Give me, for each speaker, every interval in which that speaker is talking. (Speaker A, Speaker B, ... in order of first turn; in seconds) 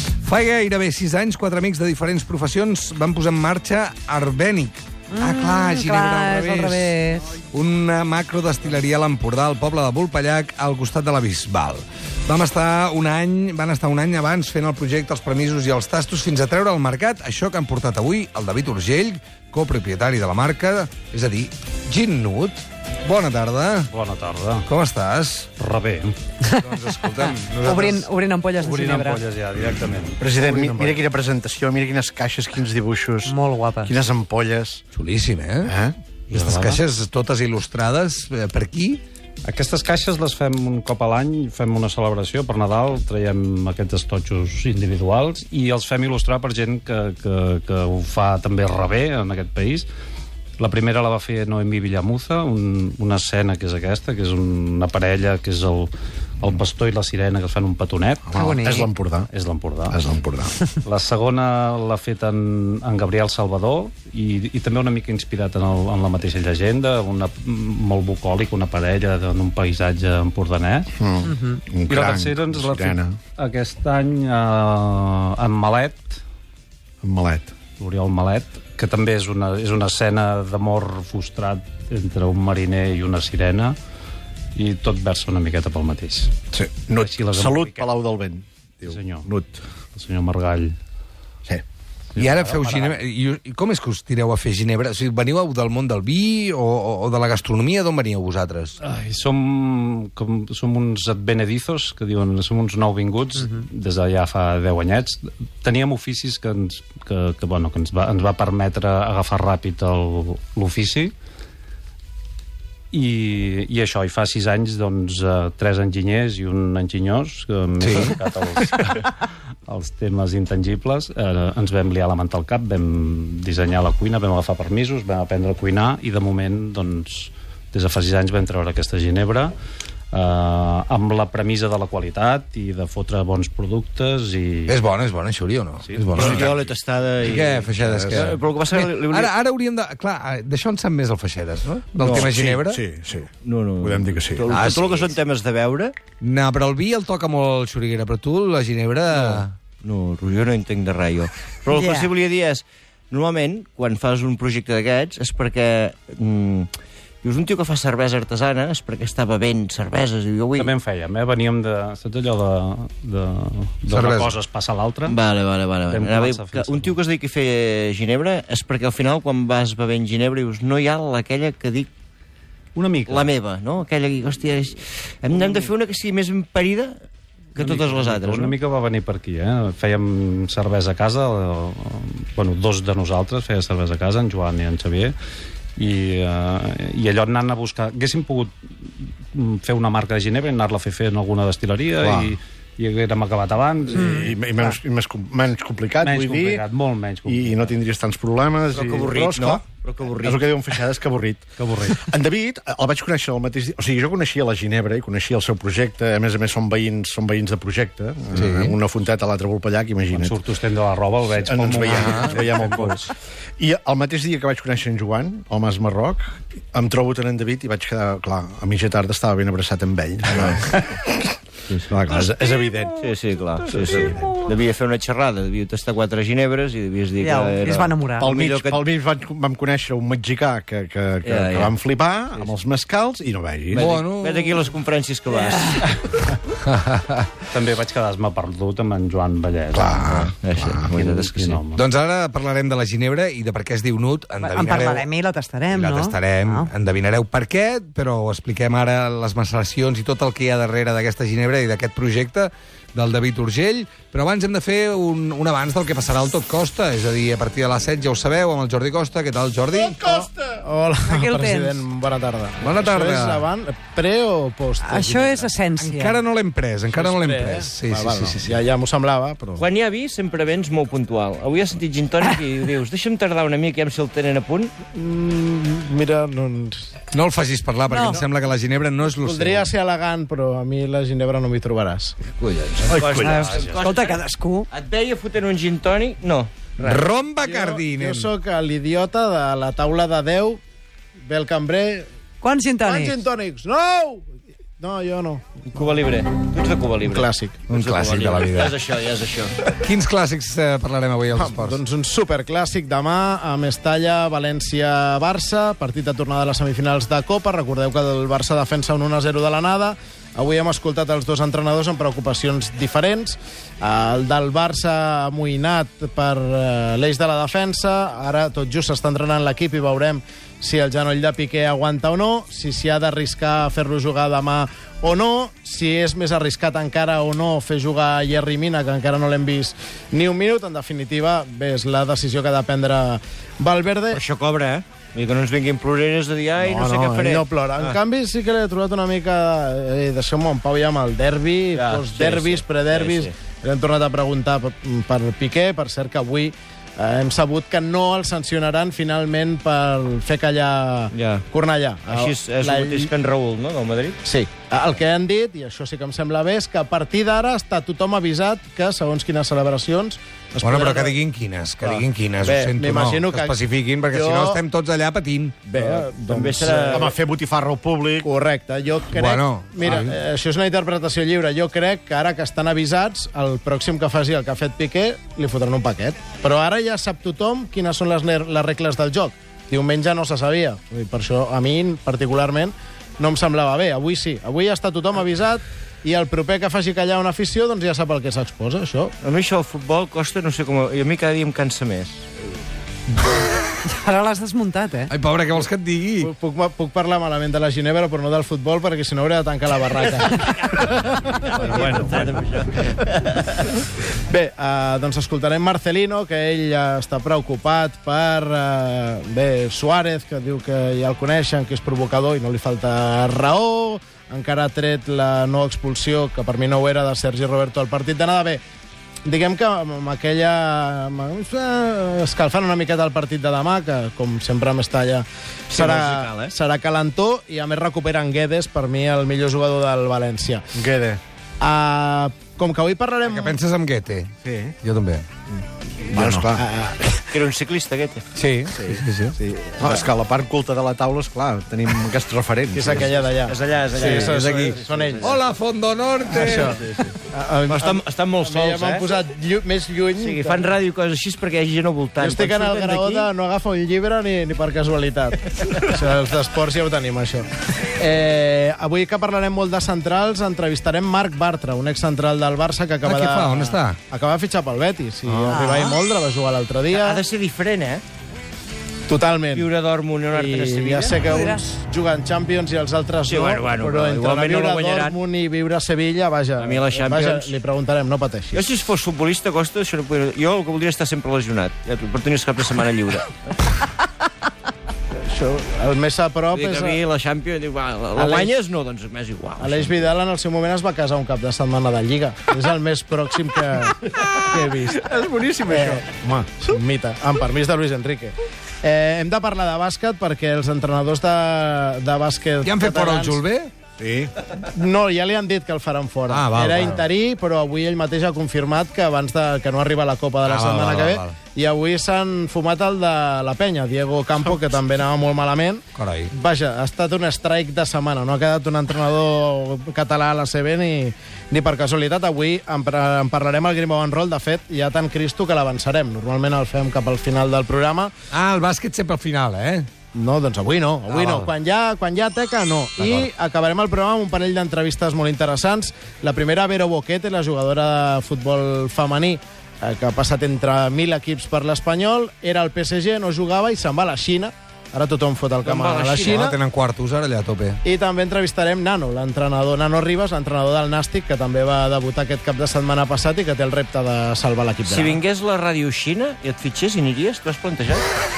Speaker A: 0.2-6.9, 7.5-23.9, 24.6-25.5, 26.5-28.1, 34.9-35.7, 36.3-39.0, 92.2-98.8, 117.8-118.2, 134.7-136.7, 137.2-142.8, 144.5-145.1, 146.2-149.5, 163.9-164.3, 208.3-208.7, 212.0-212.3, 233.7-234.6, 236.6-237.3, 239.7-240.3, 241.7-245.1, 245.7-260.0, 262.6-263.5, 265.8-268.6, 277.1-279.7, 286.8-288.3, 297.7-298.8, 299.8-301.8, 360.6-365.6, 369.1-370.1, 395.1-396.3, 433.2-435.2, 436.2-436.6, 438.3-439.4, 444.0-446.8, 463.0-464.0, 502.6-503.7, 506.3-507.0, 510.4-511.4, 515.9-516.3, 528.3-529.9, 531.1-531.5, 533.0-533.2, 546.2-547.8
Speaker B: 5.1-7.4, 26.4-29.2, 33.2-34.0, 58.3-58.9, 71.2-71.6, 151.7-152.1, 193.9-194.3, 227.2-228.3, 244.4-246.7, 261.1-261.8, 264.8-266.2, 277.9-278.2, 283.1-284.6, 292.4-293.2, 393.9-395.1, 465.5-466.0, 471.2-471.6
Speaker C: 23.9-24.7, 25.6-26.2, 28.6-30.5, 36.3-36.8, 39.4-49.9, 50.6-58.3, 59.3-60.0, 60.8-70.9, 71.9-76.2, 77.8-83.8, 84.5-86.3, 87.0-87.9, 88.8-89.3, 89.9-90.8, 92.1-93.0, 98.8-111.1, 112.9-119.1, 119.7-129.5, 130.1-134.8, 135.8-136.3, 160.6-165.2, 165.9-166.9, 172.7-173.3, 177.6-185.1, 185.8-188.5, 189.3-194.4, 196.0-197.8, 201.6-202.1, 210.1-213.1, 237.5-240.1, 240.9-241.8, 283.2-283.8
Speaker D: 30.2-34.8, 35.6-35.9, 58.3-59.3, 59.9-60.5, 71.0-73.2, 77.0-77.5, 86.5-89.6, 136.2-136.4, 137.9-138.3, 142.0-144.4, 192.0-192.3, 193.9-196.6, 197.2-199.6, 200.2-210.4, 211.3-221.1, 221.7-223.1, 223.7-224.4, 228.2-233.9, 282.9-283.4, 366.9-368.3, 430.7-431.2, 434.4-434.7, 436.1-436.6, 439.8-443.2, 495.1-495.9
Speaker E: 136.2-139.3, 142.0-142.4, 143.4-145.9, 149.1-156.7, 157.2-160.7, 165.1-171.9, 173.1-177.0, 177.6-178.6, 198.7-200.5, 220.3-220.6, 223.0-228.8, 231.2-231.7, 233.7-236.0, 240.1-241.6, 269.6-274.7, 282.4-287.0, 295.6-299.6, 334.1-338.0, 341.7-343.3, 351.1-351.4, 352.1-354.2, 365.7-367.1, 389.2-392.2, 401.6-403.0, 425.7-426.5, 437.3-438.3, 443.4-445.4, 446.4-447.1, 447.7-449.1, 450.2-453.3, 465.2-465.7, 466.9-468.0, 469.5-471.2, 473.2-475.2, 476.6-477.5, 478.5-483.4, 486.5-490.1, 545.6-546.5, 554.9-558.0
Speaker F: 259.7-265.5, 266.9-269.6, 274.9-276.9, 279.2-282.1, 287.4-290.6, 291.2-292.1, 292.8-294.3, 294.8-295.4, 297.0-297.6, 301.3-334.2, 336.6-353.1, 354.2-361.1, 362.4-364.6, 365.7-367.1, 368.2-389.1, 396.2-402.3, 404.3-418.6, 419.2-430.6, 431.6-433.6, 436.2-437.3, 439.4-440.0, 442.7-445.4, 446.3-450.7, 452.2-467.2, 469.1-469.7, 470.3-478.6, 485.2-487.0, 488.1-488.5, 489.6-503.4, 504.6-528.1, 530.1-546.5, 547.8-555.2